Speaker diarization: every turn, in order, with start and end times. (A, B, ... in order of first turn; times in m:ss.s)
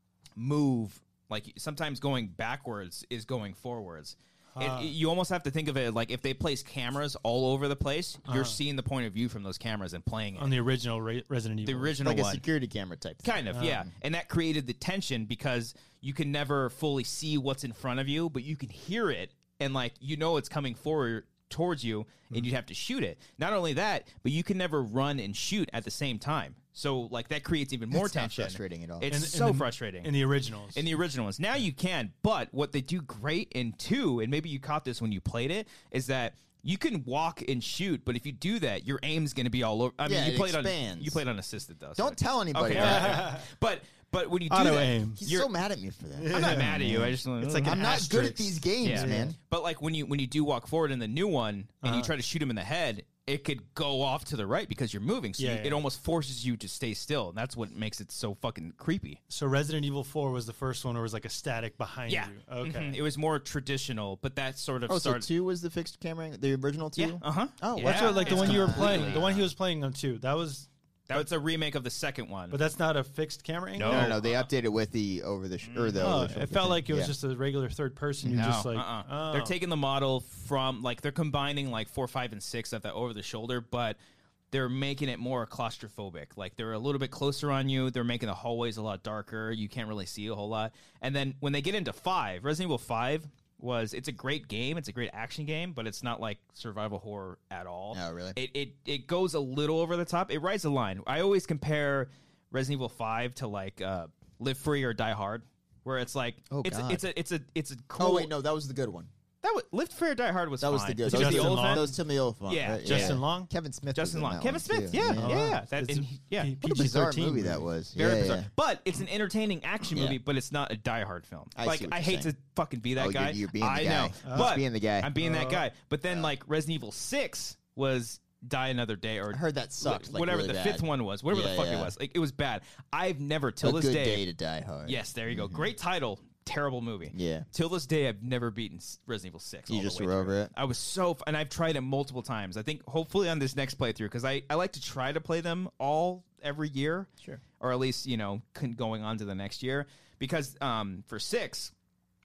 0:00.4-0:10.6 A
0:04.5-0:04.9 B
0:08.3-0:08.6 B
0:10.4-0:12.0 B
0:11.6-0:12.4 A
0:12.0-0:13.8 C
0:13.2-0:30.1 A
0:13.5-0:13.8 B
0:27.9-0:29.1 C
0:29.1-0:30.8 B
0:30.7-0:45.5 A
0:40.0-0:41.2 C
0:42.0-0:43.2 C
0:42.7-0:43.5 B
0:44.5-0:45.2 B
0:45.2-0:47.1 C
0:46.2-0:49.3 B
0:46.3-0:48.0 A
0:47.6-0:49.4 C
0:48.8-0:59.2 A
0:51.8-0:52.1 B
0:55.4-0:55.8 B
0:59.3-1:03.0 B
1:02.1-1:05.3 A
1:04.9-1:09.2 C
1:07.0-1:09.5 A
1:07.8-1:11.2 B
1:11.1-1:12.6 A
1:12.5-1:14.2 B
1:13.8-1:14.5 A
1:13.8-1:17.1 C
1:15.6-1:16.3 A
1:16.0-1:19.6 B
1:18.2-1:18.5 C
1:18.3-1:24.0 A
1:24.5-1:48.3 A
1:37.9-1:38.4 C
1:46.5-1:47.0 C
1:48.0-1:49.1 C
1:49.4-1:51.9 A
1:50.6-1:55.4 C
1:51.0-1:51.9 B
1:52.5-1:53.2 A
1:52.8-1:53.5 B
1:53.9-1:56.5 A
1:55.1-1:57.7 B
1:56.6-1:58.5 C
1:58.0-2:14.2 A
2:01.6-2:02.3 C
2:03.0-2:05.1 C
2:04.2-2:04.5 B
2:05.2-2:05.6 B
2:09.3-2:11.9 C
2:13.6-2:15.7 C
2:14.8-2:27.1 A
2:17.1-2:17.5 C
2:19.7-2:20.5 C
2:27.6-2:31.7 A